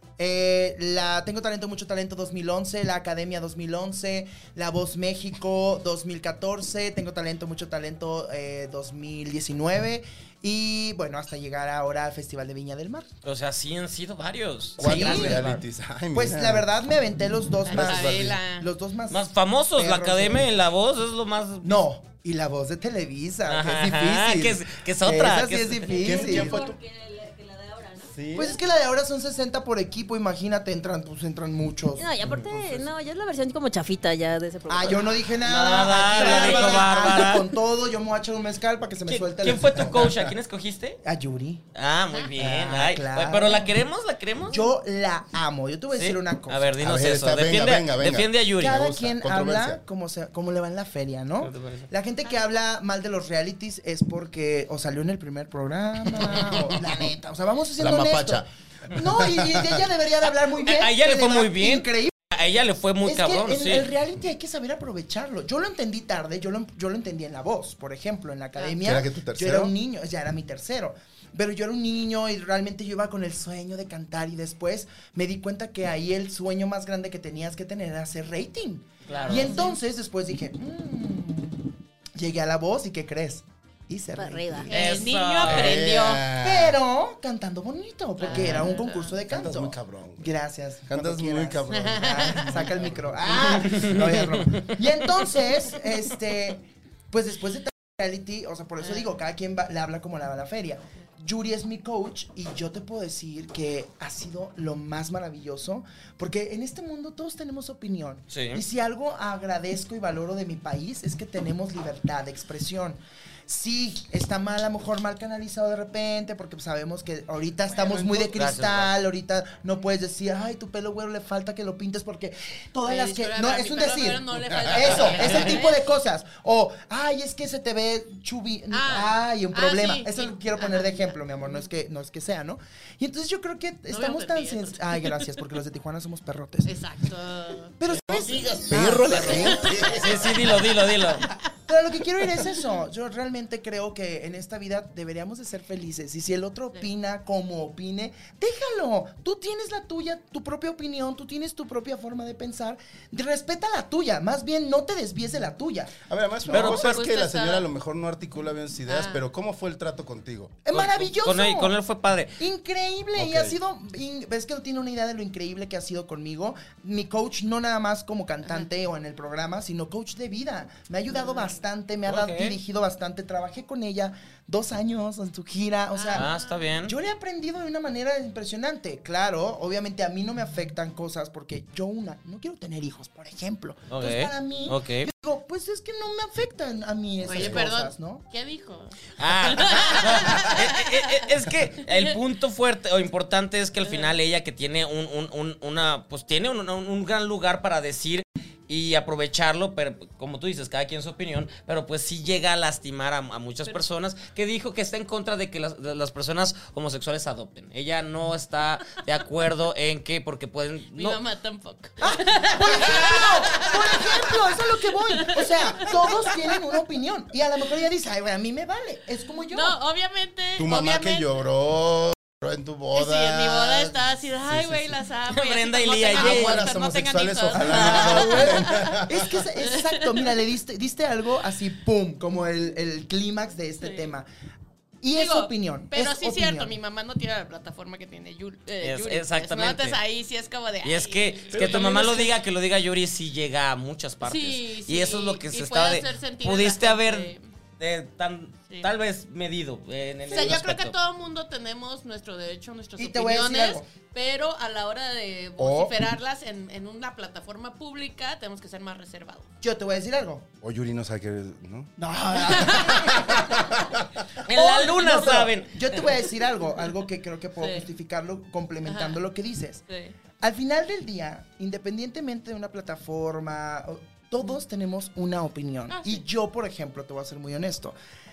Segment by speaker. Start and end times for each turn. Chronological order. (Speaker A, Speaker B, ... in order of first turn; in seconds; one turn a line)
Speaker A: 0.2-13.1
Speaker B: 13.2-15.5
Speaker C: 14.8-16.7
Speaker A: 14.8-20.5
Speaker D: 17.6-18.7
Speaker C: 17.8-18.4
Speaker B: 19.1-21.9
Speaker A: 21.6-26.6
Speaker B: 23.5-26.2
Speaker C: 26.0-26.8
Speaker E: 26.0-28.1
Speaker C: 28.1-28.6
Speaker A: 28.3-32.2
Speaker E: 32.0-35.1
Speaker C: 32.3-32.9
Speaker A: 34.7-40.3
Speaker B: 35.4-37.5
Speaker D: 36.3-36.8
Speaker B: 39.1-41.0
Speaker C: 39.7-40.3
Speaker A: 41.0-41.6
Speaker B: 41.8-44.7
Speaker A: 42.4-43.7
Speaker A: 44.5-46.7
Speaker B: 45.9-48.8
Speaker C: 46.8-49.8
Speaker A: 48.6-62.1
Speaker B: 51.4-51.9
Speaker C: 56.2-57.0
Speaker C: 57.8-59.9
Speaker B: 60.3-63.9
Speaker A: 63.0-85.1
Speaker C: 68.8-69.8
Speaker B: 79.1-79.7
Speaker D: 79.1-79.8
Speaker E: 84.2-84.7
Speaker D: 84.7-86.3
Speaker B: 84.7-85.8
Speaker C: 85.4-86.8
Speaker A: 86.4-136.8
Speaker D: 88.2-89.2
Speaker B: 88.3-88.6
Speaker C: 89.3-93.9
Speaker D: 91.7-92.6
Speaker B: 93.3-94.6
Speaker D: 98.8-99.1
Speaker B: 108.3-108.6
Speaker C: 117.7-118.4
Speaker B: 118.3-118.9
Speaker D: 122.8-125.9
Speaker C: 124.5-125.1
Speaker B: 124.9-125.6
Speaker D: 128.7-131.6
Speaker D: 133.9-135.3
Speaker D: 136.7-137.8
Speaker A: 137.8-139.7
Speaker C: 137.9-140.6
Speaker D: 138.9-139.7
Speaker B: 139.1-141.2
Speaker A: 141.7-156.0
Speaker C: 156.1-160.6
Speaker D: 156.5-157.7
Speaker B: 156.5-156.8
Speaker D: 158.9-159.2
Speaker A: 160.7-161.8
Speaker B: 160.7-162.4
Speaker A: 162.4-176.3
Speaker C: 163.2-163.6
Speaker B: 172.1-172.6
Speaker D: 175.9-176.7
Speaker B: 176.1-176.9
Speaker A: 176.9-188.2
Speaker B: 183.9-185.1
Speaker D: 187.2-191.1
Speaker C: 187.3-187.7
Speaker B: 189.2-211.2
Speaker D: 193.8-194.1
Speaker D: 210.9-214.6
Speaker A: 212.0-219.8
Speaker D: 215.1-216.6
Speaker D: 219.5-221.3
Speaker C: 220.6-225.0
Speaker D: 222.9-229.0
Speaker B: 225.3-226.7
Speaker C: 226.1-229.4
Speaker A: 227.6-234.3
Speaker D: 229.7-230.2
Speaker D: 233.8-234.1
Speaker A: 235.0-236.7
Speaker D: 235.2-241.8
Speaker B: 238.8-240.0
Speaker B: 240.8-251.0
Speaker A: 241.6-242.0
Speaker C: 241.6-242.0
Speaker D: 244.2-247.5
Speaker D: 250.3-259.5
Speaker A: 253.0-253.9
Speaker C: 255.6-256.0
Speaker A: 259.6-260.5
Speaker C: 260.6-261.9
Speaker A: 262.0-263.5
Speaker D: 262.4-263.4
Speaker C: 263.0-264.2
Speaker B: 264.5-266.3
Speaker A: 264.5-269.8
Speaker D: 267.6-267.9
Speaker D: 268.9-269.2
Speaker D: 269.9-270.1
Speaker A: 270.4-278.0
Speaker D: 275.9-276.2